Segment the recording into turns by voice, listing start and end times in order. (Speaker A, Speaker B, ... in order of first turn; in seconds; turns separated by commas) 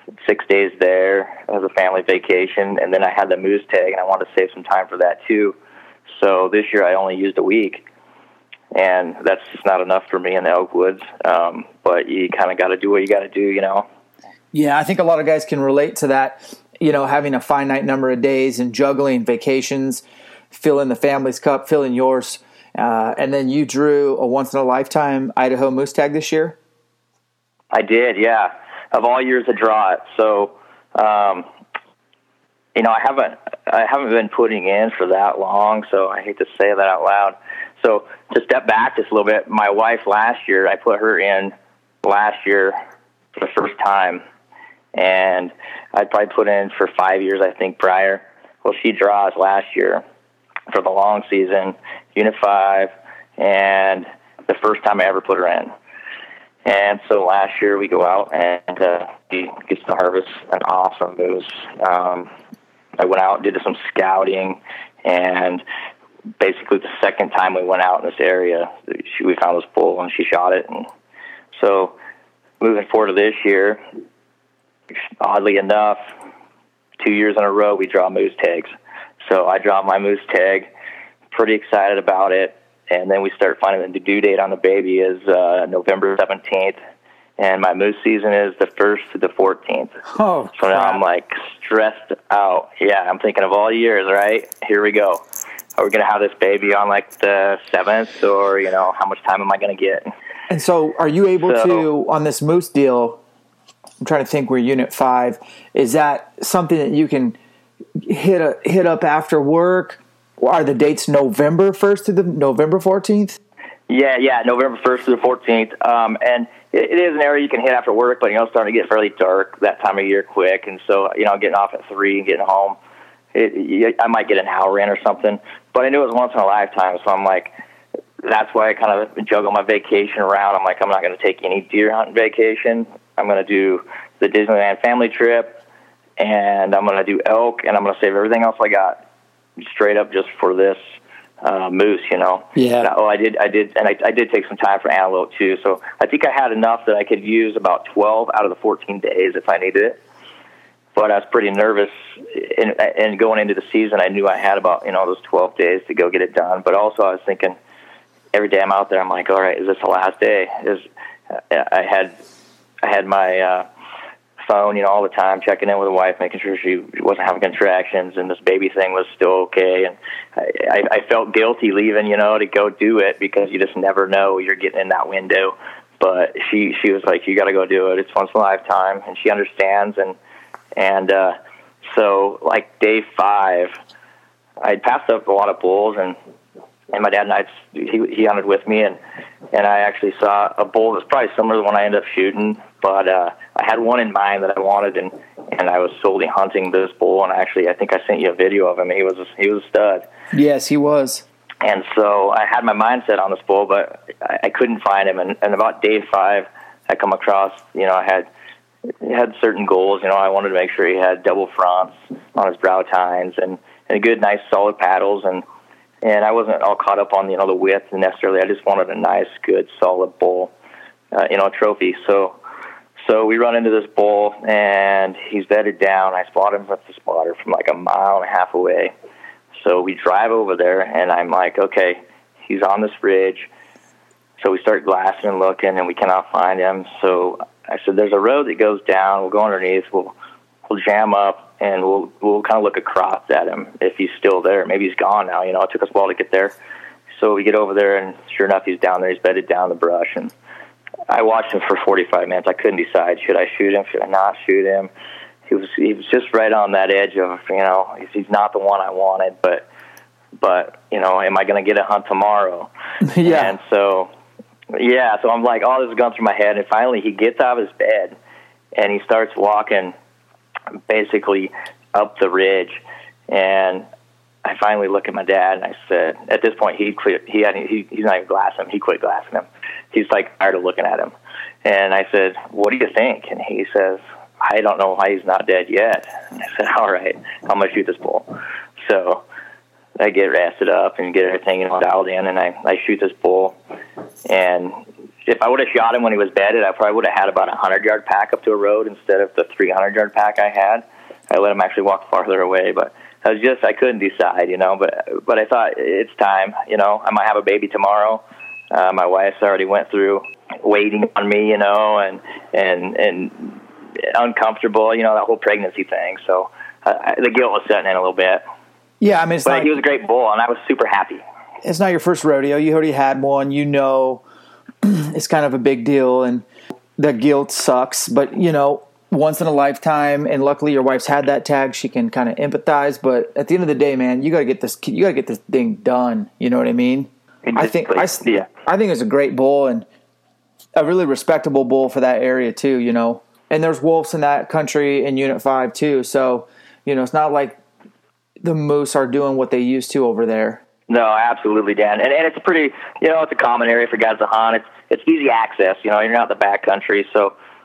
Speaker A: 0.2-5.6, Speaker A: 6.1-7.9, Speaker A: 8.7-13.9, Speaker B: 14.5-26.6, Speaker A: 27.7-31.5, Speaker A: 32.8-42.8, Speaker A: 43.4-44.2, Speaker A: 45.0-50.0, Speaker A: 50.7-55.7, Speaker A: 56.6-62.3, Speaker A: 63.0-65.6, Speaker A: 66.4-70.9, Speaker A: 71.5-72.0, Speaker A: 72.6-73.8, Speaker A: 75.2-76.0, Speaker A: 77.0-78.7, Speaker A: 79.3-80.7, Speaker A: 81.3-86.8, Speaker A: 87.4-90.0, Speaker B: 90.1-91.0, Speaker A: 90.6-95.2, Speaker A: 95.8-100.1, Speaker B: 100.5-103.2, Speaker A: 101.5-101.8, Speaker B: 104.0-107.4, Speaker B: 108.0-113.4, Speaker A: 113.9-122.8, Speaker A: 123.3-127.5, Speaker A: 128.2-135.6, Speaker A: 136.2-139.0, Speaker A: 139.6-140.8, Speaker A: 141.4-150.0, Speaker B: 142.6-142.9, Speaker A: 150.9-157.6, Speaker A: 158.3-160.8, Speaker A: 161.5-162.2, Speaker A: 162.8-163.7, Speaker A: 164.4-180.2, Speaker A: 180.8-183.8, Speaker A: 184.6-186.2, Speaker A: 186.9-189.0, Speaker A: 189.5-200.1, Speaker B: 200.3-201.2, Speaker A: 201.6-208.3, Speaker A: 209.0-215.4, Speaker A: 216.0-220.5, Speaker A: 221.1-222.4, Speaker A: 223.1-228.9, Speaker A: 229.6-233.5, Speaker A: 234.4-240.2, Speaker A: 240.7-246.5, Speaker A: 247.2-250.3, Speaker A: 251.1-254.9, Speaker A: 255.5-259.7, Speaker A: 260.4-262.7, Speaker B: 263.0-263.6, Speaker A: 263.2-264.1, Speaker A: 264.7-268.1, Speaker A: 268.8-269.9, Speaker A: 270.9-273.9, Speaker A: 274.4-281.1, Speaker A: 281.6-288.3, Speaker A: 288.9-289.2, Speaker A: 290.0-293.6, Speaker A: 294.3-318.4, Speaker B: 319.0-319.7, Speaker A: 319.5-321.2, Speaker B: 321.6-324.2, Speaker B: 324.8-326.4, Speaker B: 327.0-339.9, Speaker A: 337.4-338.5, Speaker B: 340.8-347.6, Speaker B: 348.4-350.6, Speaker A: 350.9-357.3